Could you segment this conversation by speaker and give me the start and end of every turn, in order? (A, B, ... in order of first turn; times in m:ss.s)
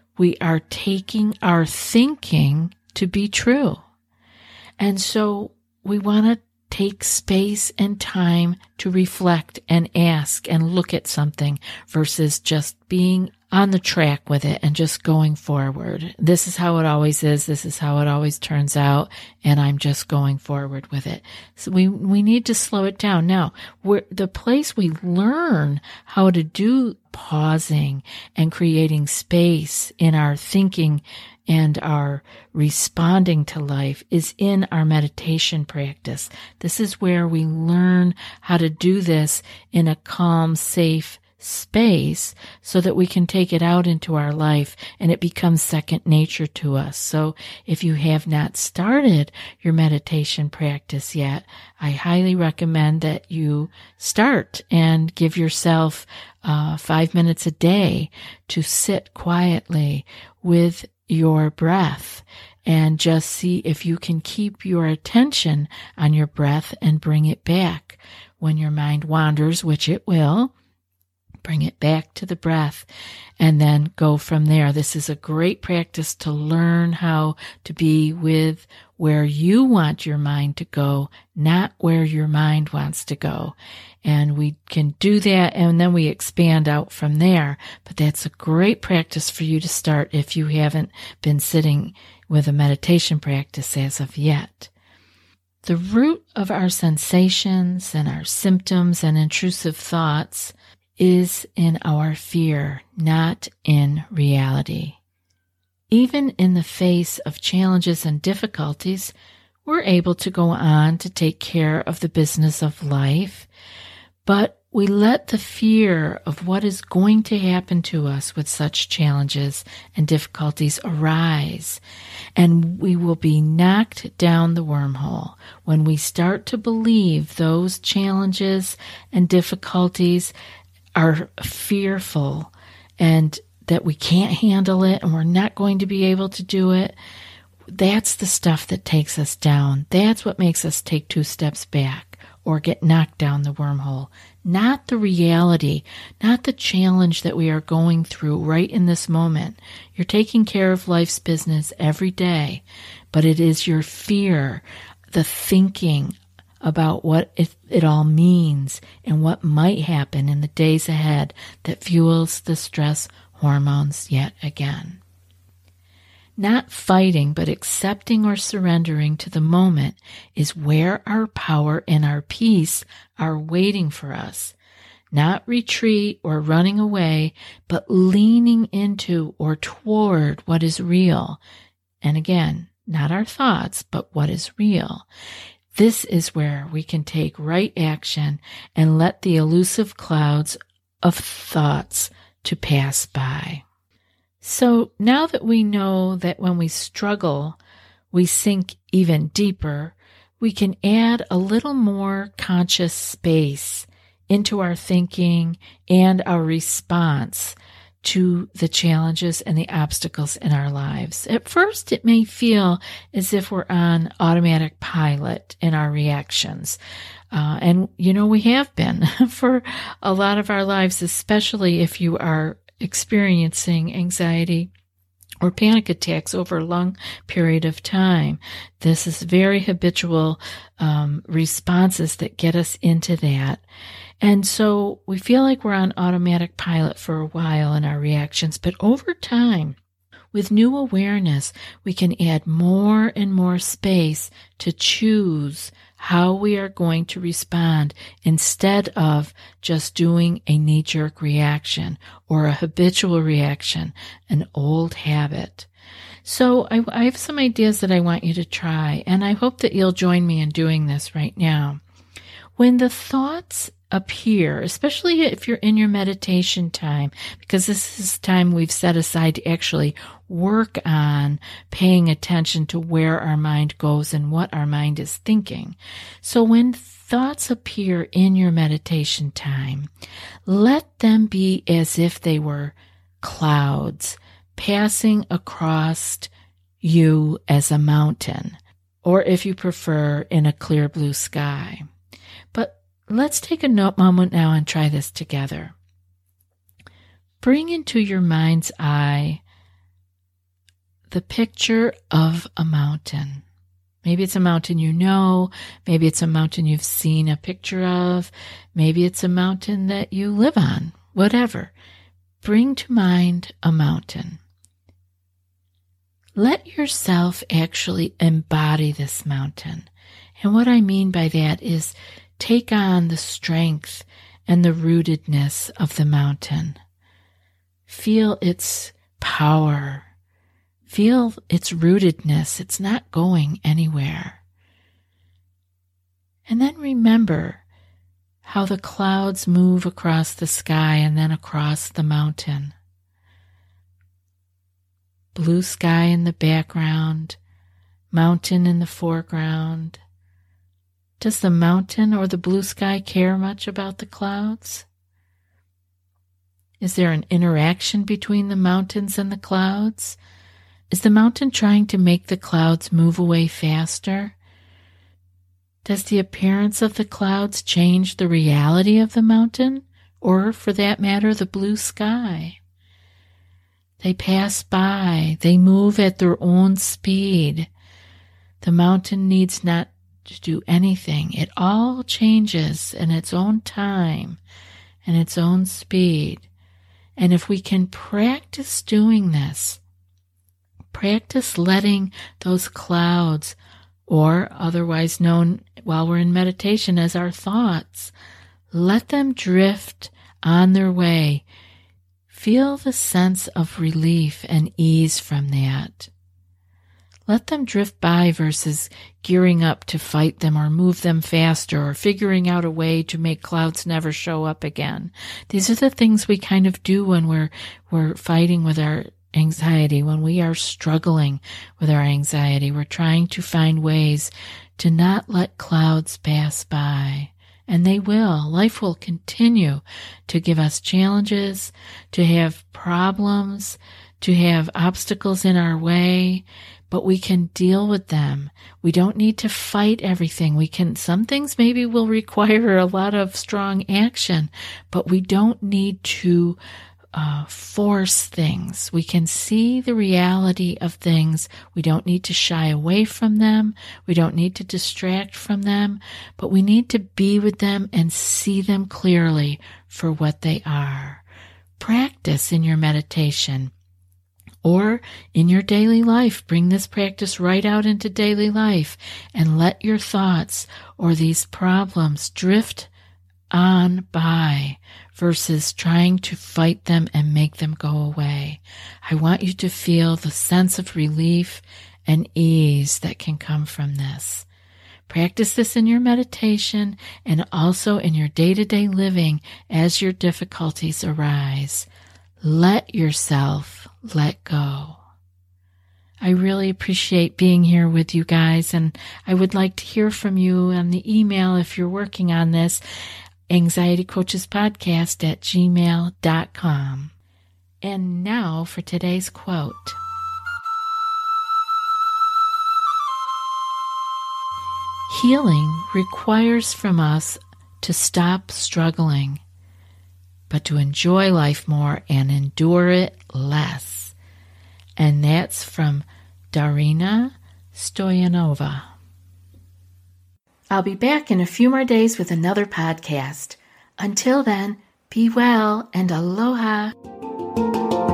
0:00.2-0:03.8 A
0:04.8-1:10.5 A
1:11.4-1:12.9 A
1:13.4-1:34.7 A
1:35.6-1:45.0 A
1:45.9-1:49.1 A
1:49.6-1:53.5 A
1:54.2-2:01.8 A
2:02.4-2:10.3 A
2:11.0-2:17.0 A
2:17.7-2:45.0 A
2:46.4-2:54.6 A
2:55.1-3:01.4 A
3:02.0-3:05.1 A
3:05.7-3:13.6 A
3:14.4-3:17.6 A
3:18.1-3:36.8 A
3:37.3-3:44.7 A
3:45.4-3:53.6 A
3:54.2-3:59.8 A
4:00.3-4:15.7 A
4:16.2-4:21.8 A
4:22.6-4:39.9 A
4:40.5-4:46.3 A
4:46.8-4:51.9 A
4:52.5-4:55.8 A
4:57.4-4:59.4 A
5:01.1-5:03.4 A
5:04.0-5:11.7 A
5:12.4-5:14.4 A
5:16.4-5:26.8 A
5:27.9-5:30.1 A
5:30.9-5:34.4 A
5:36.5-5:37.6 A
5:38.4-5:42.8 A
5:45.4-5:47.4 A
5:48.1-5:50.0 A
5:51.2-5:54.9 A
5:56.8-6:00.2 A
6:00.9-6:04.4 A
6:05.8-6:12.6 A
6:14.0-6:17.7 A
6:18.6-6:24.4 A
6:25.0-6:26.5 A
6:27.2-6:29.8 A
6:30.9-6:38.1 A
6:38.7-6:41.4 A
6:42.3-6:46.1 A
6:47.3-7:26.6 A
7:27.1-7:41.2 A
7:41.8-7:43.7 A
7:44.6-7:52.9 A
7:53.5-8:04.5 A
8:05.1-8:11.9 A
8:12.4-8:15.0 A
8:16.2-8:22.8 A
8:23.5-8:27.1 A
8:27.8-8:30.0 A
8:35.1-8:39.4 A
8:40.5-8:44.2 A
8:45.0-8:48.9 A
8:50.7-8:57.0 A